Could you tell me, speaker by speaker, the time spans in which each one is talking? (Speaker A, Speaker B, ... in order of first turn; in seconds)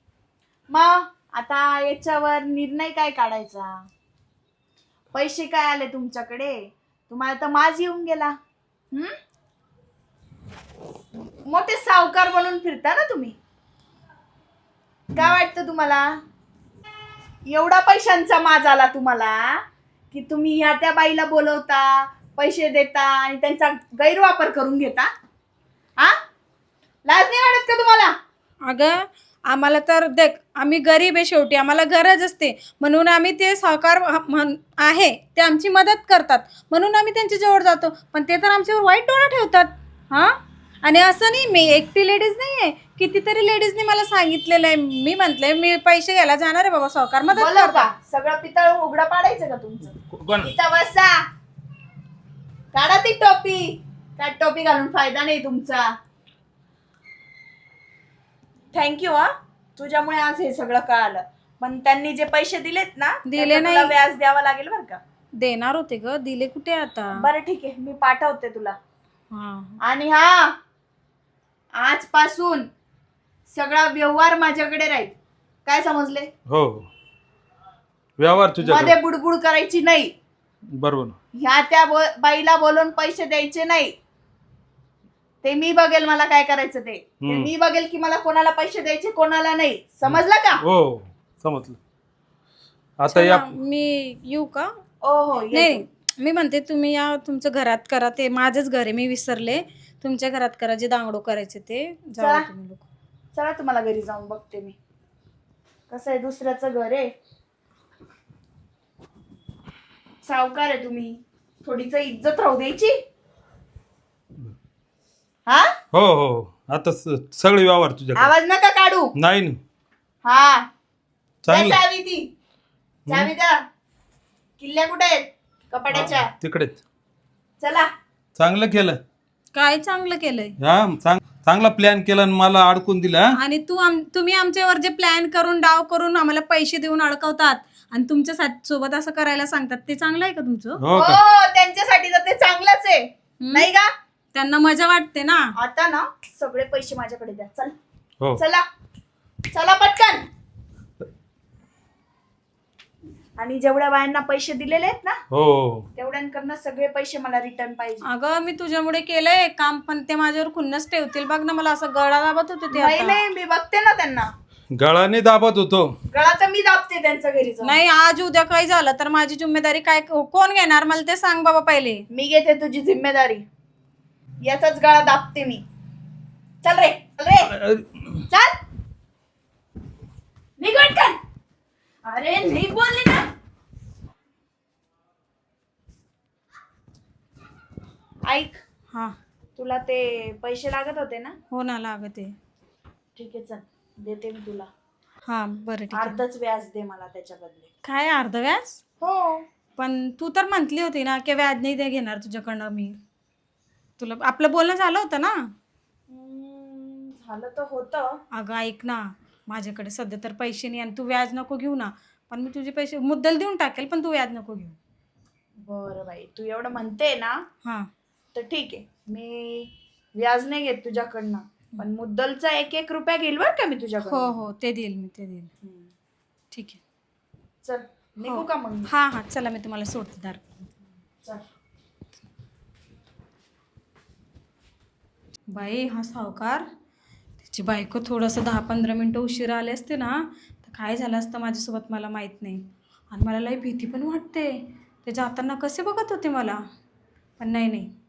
Speaker A: 0.7-3.7, 5.1-6.6, 7.1-8.3, 11.5-13.4, 15.2-16.1, 17.5-19.6, 20.1-25.1, 27.1-28.1, 47.4-51.2, 52.7-55.9, 58.7-65.0, 67.2-68.8, 69.8-70.5, 71.8-72.7, 73.5-75.1, 75.7-76.3, 78.6-80.1, 81.4-83.9, 85.4-90.6, 95.0-95.8, 103.3-104.8, 105.9-107.1, 110.2-113.0, 118.2-119.1, 120.2-120.7, 121.5-122.3, 123.1-123.6, 124.6-126.3, 127.6-127.9, 140.9-143.9, 145.6-147.8, 148.4-148.6, 149.5-150.2, 153.4-155.2, 156.0-158.0, 162.7-164.3, 166.1-167.8, 172.1-173.4, 174.4-175.6, 176.6-177.5, 178.3-178.6, 180.6-181.2, 182.1-183.3, 188.3-188.6, 189.6-191.3, 193.2-194.7, 195.9-197.7, 199.0-199.4, 206.1-208.1, 215.6-217.4, 218.3-224.4, 227.7-228.9
Speaker B: 28.6-47.9, 63.2-64.0, 65.4-67.2, 69.3-69.8, 93.1-94.7, 95.5-102.9, 129.5-130.6, 133.4-140.8, 143.4-143.7, 144.3-145.5, 158.0-163.2, 167.6-172.1, 191.5-192.3, 195.3-196.2, 197.8-198.8, 199.8-203.0, 204.0-205.3, 208.3-214.8, 217.6-217.9, 224.0-225.5, 226.5-226.8, 228.2-230.8, 235.5-236.7, 237.4-244.5, 245.0-246.6, 247.4-247.9
Speaker C: 50.1-50.5, 76.5-76.9, 78.2-79.0, 80.7-81.2, 87.2-87.5, 90.1-91.8, 93.0-93.5, 115.9-118.3, 119.2-119.6, 121.5-121.8, 125.9-126.8, 128.4-129.0, 130.6-133.3, 140.8-141.2, 155.3-155.9, 164.7-165.9, 177.4-178.2